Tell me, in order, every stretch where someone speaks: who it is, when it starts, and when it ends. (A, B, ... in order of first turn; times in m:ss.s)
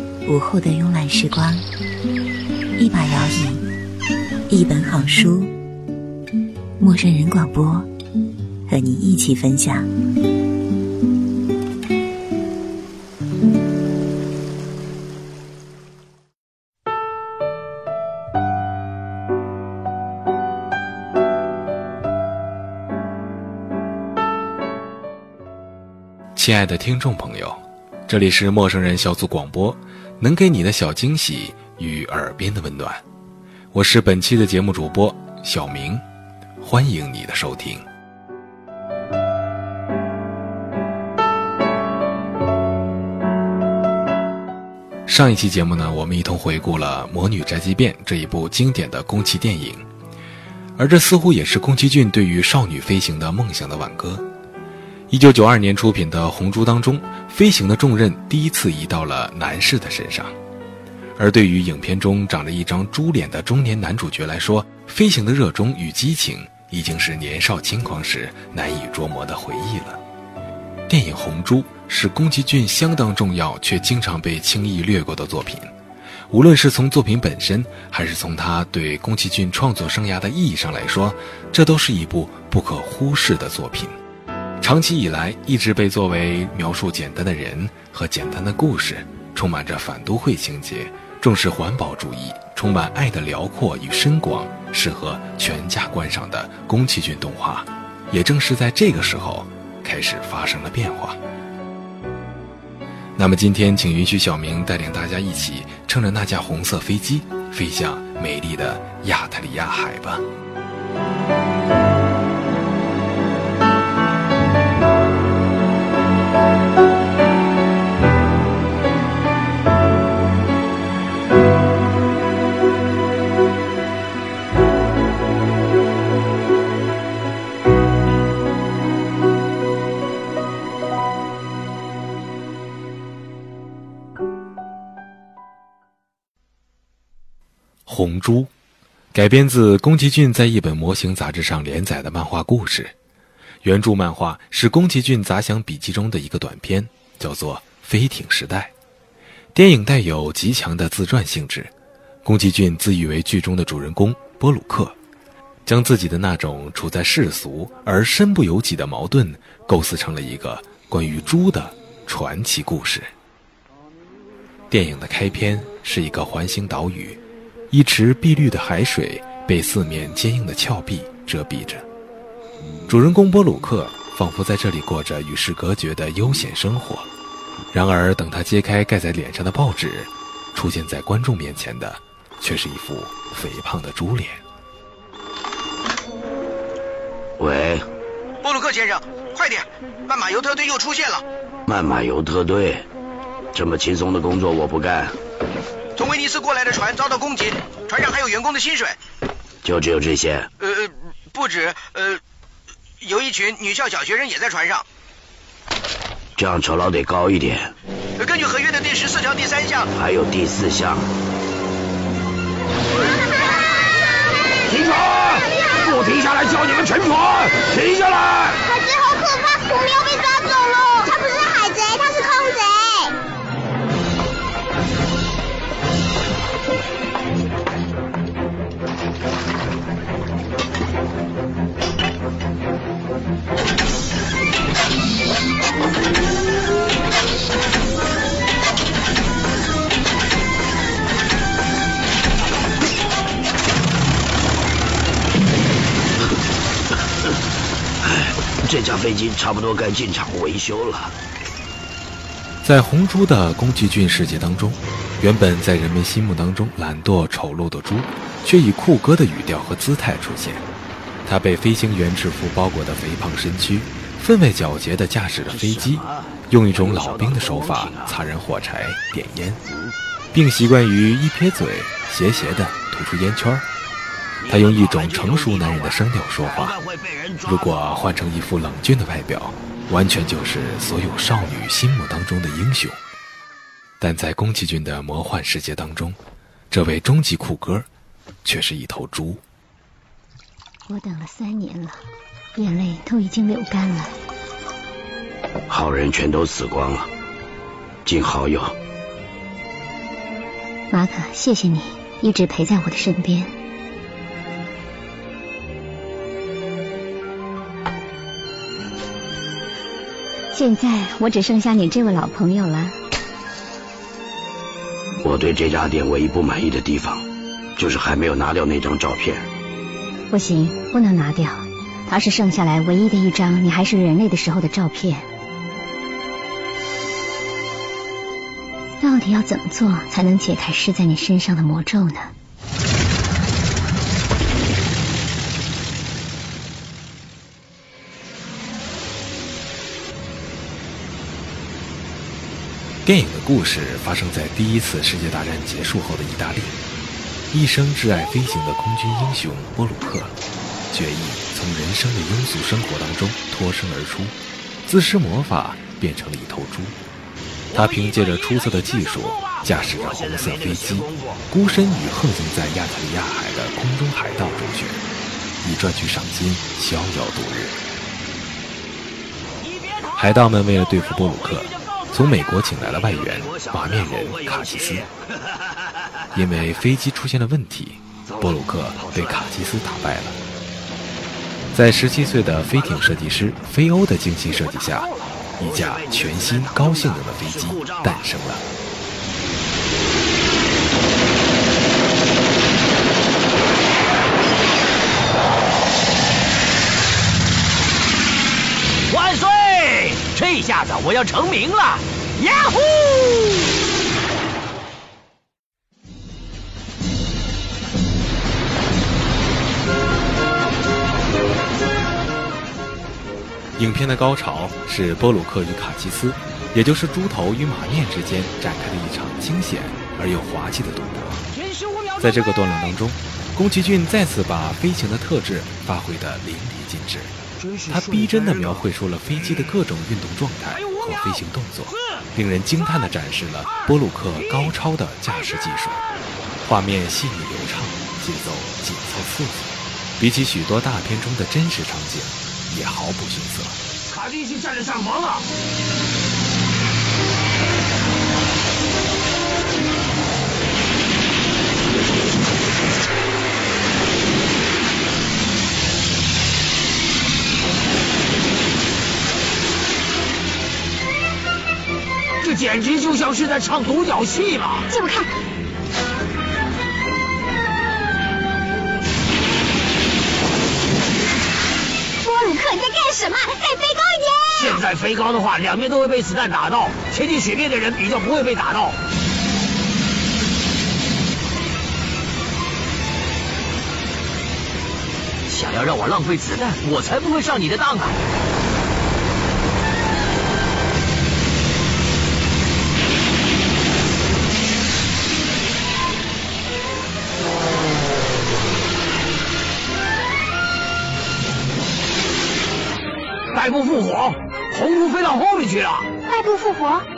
0:00.3-0:01.6 A
0:02.8-0:03.6 A
0:04.5-0:05.5 A
0:06.8-0:07.9 A
0:08.7-0:09.8 A
0:26.4-0:33.0 B
0:33.7-0:36.0 B
0:36.6-0:37.8 B
0:45.1-0:49.8 B
0:50.8-0:54.2 B
0:55.1-1:00.3 B
1:01.2-1:10.0 B
1:10.9-1:15.7 B
1:16.3-1:24.0 B
1:24.6-1:41.2 B
1:43.2-1:50.2 B
2:17.9-2:18.5 B
2:19.1-2:22.9 B
2:23.6-2:28.7 B
2:29.5-2:31.7 B
2:32.2-2:35.0 B
2:35.7-2:43.1 B
2:44.7-2:47.2 B
2:47.7-2:51.9 B
2:52.9-2:57.1 B
2:57.7-3:04.4 B
3:07.4-3:07.8 C
3:08.4-3:11.2 D
3:11.7-3:12.8 C
3:13.5-3:15.2 C
3:16.0-3:19.0 D
3:19.6-3:20.5 C
3:20.6-3:22.2 D
3:23.0-3:24.8 D
3:26.4-3:27.7 C
3:28.2-3:29.9 D
3:29.9-3:31.1 C
3:34.7-3:38.6 E
3:38.6-3:43.1 F
4:08.0-4:11.1 C
4:12.6-4:20.6 B
4:21.3-4:29.6 B
4:25.5-4:28.2 C
4:30.3-4:33.7 B
4:34.4-4:37.8 C
4:34.5-4:36.8 B
4:37.5-4:43.0 B
4:44.0-4:46.2 B
4:46.7-4:47.9 B
4:48.4-4:49.4 B
4:50.9-4:52.0 G
4:52.6-4:54.1 G
4:55.7-4:57.1 C
4:58.0-4:58.8 C
5:00.9-5:03.5 G
5:10.5-5:13.0 G
5:15.2-5:17.2 C
5:17.8-5:19.5 C
5:20.3-5:25.3 G
5:29.0-5:32.3 G
5:43.0-5:46.8 B
5:47.5-5:50.3 B
5:50.9-5:57.0 B
5:57.7-6:05.0 B
5:59.5-6:01.4 C
6:05.6-6:07.8 B
6:10.2-6:15.1 B
6:11.9-6:12.1 C
6:12.8-6:15.1 C
6:16.3-6:20.4 B
6:18.3-6:19.5 C
6:21.7-6:28.6 B
6:25.0-6:28.2 C
6:40.4-6:42.0 H
6:53.8-7:01.4 B
7:01.6-7:02.2 E
7:02.2-7:07.3 B
7:07.9-7:16.0 B
7:16.6-7:23.8 B
7:24.1-7:25.4 E
7:42.4-7:44.9 E
7:44.9-7:45.3 F
7:52.2-7:54.8 F
7:54.5-7:59.0 E
8:05.8-8:06.1 H
8:06.8-8:08.1 H
8:23.5-8:26.1 E
8:26.2-8:27.1 F